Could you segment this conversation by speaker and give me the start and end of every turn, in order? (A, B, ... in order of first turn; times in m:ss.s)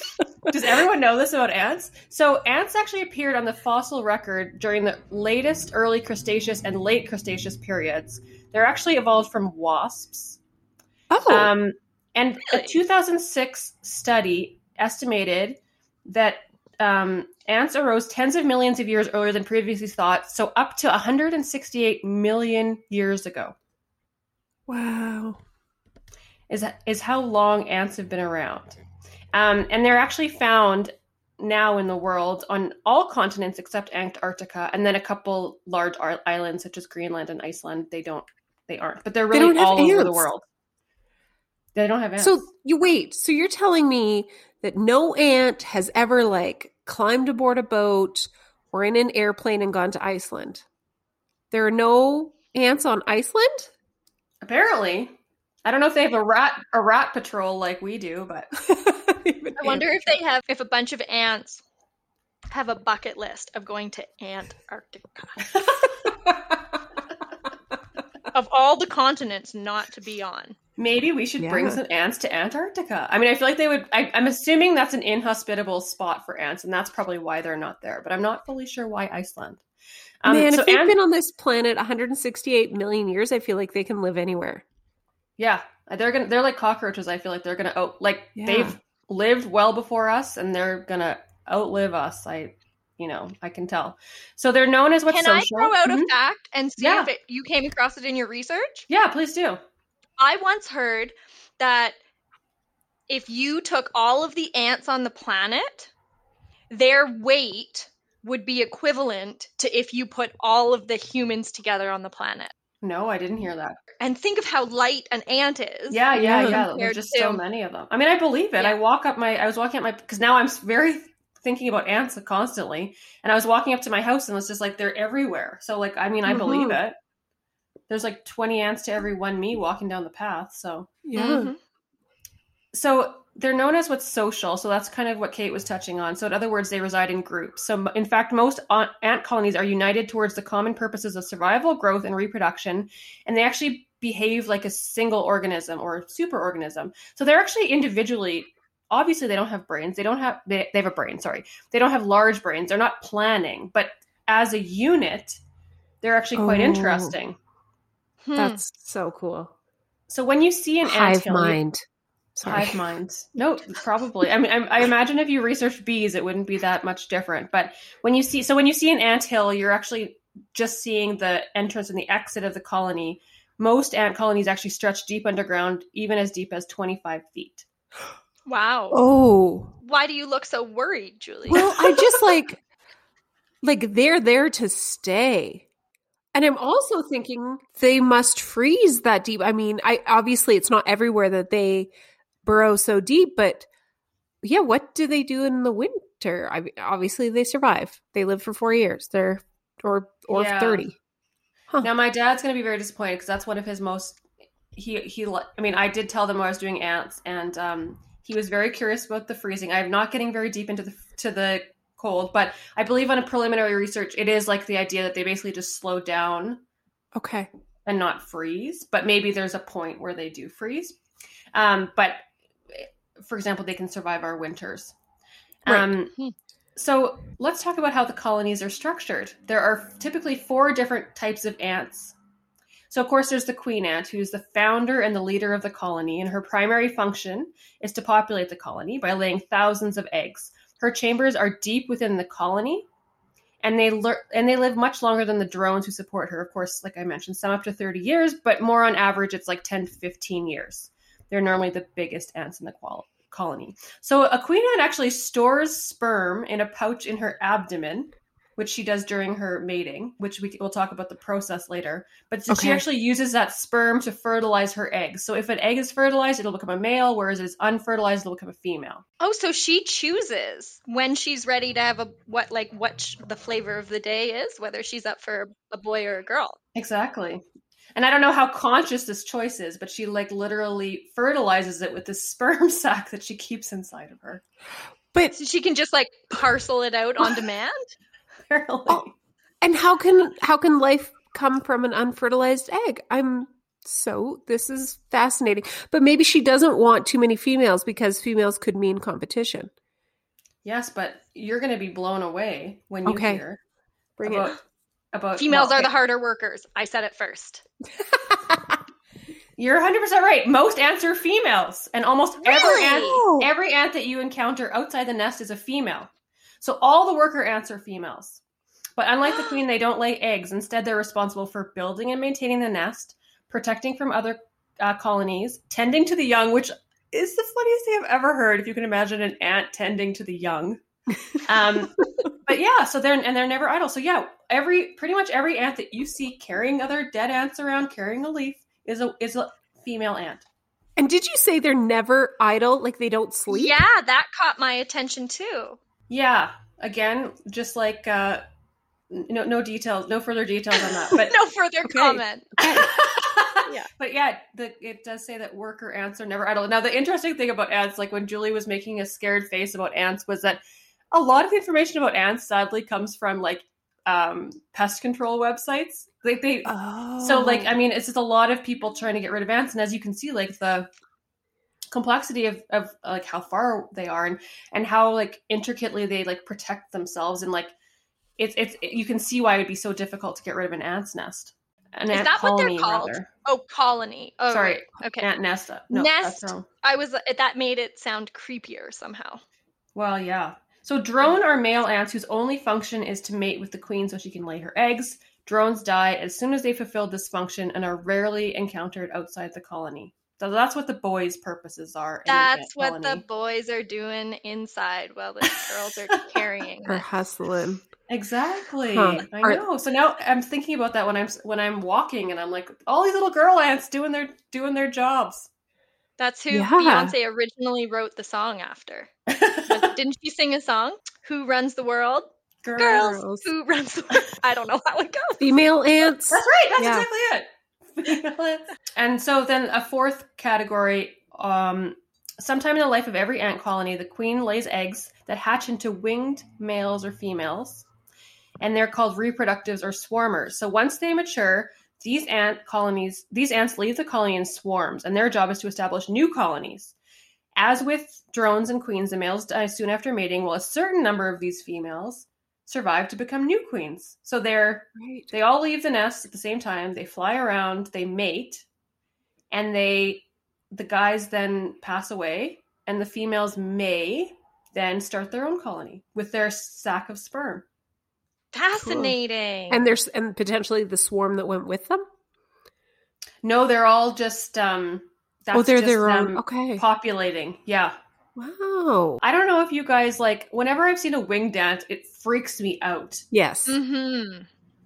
0:00.5-0:10.4 A
0:11.1-0:11.5 B
0:11.3-0:23.6 A
0:24.7-0:25.4 B
0:26.5-0:28.8 A
0:29.3-0:40.4 A
0:39.3-0:40.3 B
0:41.8-0:42.5 A
0:42.2-0:50.6 B
0:51.5-0:53.7 B
0:54.4-0:58.5 A
0:58.6-0:59.8 B
0:59.6-1:01.6 C
1:02.5-1:05.7 C
1:06.1-1:06.8 B
1:08.3-1:10.6 C
1:10.8-1:19.6 A
1:11.4-1:11.8 B
1:20.2-1:21.0 A
1:20.3-1:24.6 B
1:25.4-1:36.1 A
1:28.4-1:28.8 B
1:35.1-1:38.9 C
1:36.8-1:37.1 A
1:38.9-1:39.6 A
1:40.2-1:42.0 C
1:43.1-1:45.9 C
1:46.7-1:52.5 C
1:52.8-1:53.8 A
1:54.0-1:57.4 C
1:55.9-2:07.0 A
1:56.2-1:56.6 B
2:06.3-2:06.8 B
2:07.9-2:11.0 A
2:11.0-2:11.5 B
2:11.2-2:11.6 C
2:12.7-2:35.4 A
2:36.0-2:37.4 A
2:36.4-2:37.2 B
2:38.3-2:38.6 C
2:38.4-2:39.5 B
2:40.1-2:41.6 A
2:40.8-2:41.8 B
2:42.4-2:42.8 B
2:42.4-2:57.7 A
2:58.5-2:59.0 C
2:58.9-2:59.7 B
2:59.8-3:02.0 C
3:01.5-3:02.6 B
3:03.6-3:05.7 B
3:06.3-3:11.9 B
3:12.4-3:13.7 B
3:14.4-3:21.0 B
3:20.3-3:20.9 A
3:21.8-3:24.2 A
3:24.7-3:36.6 A
3:37.2-3:37.5 B
3:37.9-3:41.0 A
3:41.5-3:45.0 A
3:45.6-3:46.1 A
3:46.8-3:52.2 A
3:52.9-4:02.9 A
4:03.6-4:29.0 A
4:22.5-4:22.8 B
4:29.2-4:36.6 C
4:36.8-4:37.4 A
4:38.0-4:44.4 A
4:45.3-4:47.8 C
4:48.5-4:49.1 A
4:49.6-4:59.7 B
5:00.6-5:03.6 A
5:03.1-5:03.4 B
5:04.2-5:04.5 B
5:04.2-5:04.6 A
5:05.1-5:05.9 A
5:05.4-5:07.6 C
5:08.1-5:08.8 B
5:09.6-5:16.1 A
5:12.4-5:13.2 C
5:12.8-5:13.5 B
5:16.6-5:18.4 A
5:19.0-5:30.8 A
5:31.4-5:40.4 A
5:41.0-5:43.8 B
5:43.5-5:45.8 C
5:46.1-5:48.4 A
5:49.1-5:51.4 A
5:51.1-5:52.5 C
5:51.8-5:52.9 B
5:52.6-6:00.6 A
6:01.1-6:10.9 A
6:06.6-6:07.7 B
6:11.9-6:17.7 A
6:18.4-6:23.3 A
6:22.1-6:25.3 C
6:24.5-6:26.6 A
6:25.9-6:29.4 C
6:30.0-6:43.2 A
6:42.3-6:47.0 C
6:46.9-6:47.8 B
6:48.1-6:55.5 A
6:48.9-6:49.6 B
6:56.2-6:59.1 C
6:56.5-6:57.2 B
6:59.3-6:59.9 A
6:59.7-7:05.6 C
7:02.6-7:03.1 A
7:03.0-7:03.5 B
7:05.4-7:07.1 B
7:06.3-7:17.9 A
7:18.6-7:27.0 A
7:27.6-7:38.7 A
7:35.0-7:35.3 B
7:39.5-7:47.6 A
7:48.5-7:49.9 C
7:48.8-7:49.2 B
7:49.7-7:52.0 B
7:53.4-7:58.0 A
7:55.5-7:56.8 B
7:58.4-7:59.2 B
7:59.2-8:03.2 A
8:03.3-8:03.8 B
8:03.7-8:04.5 C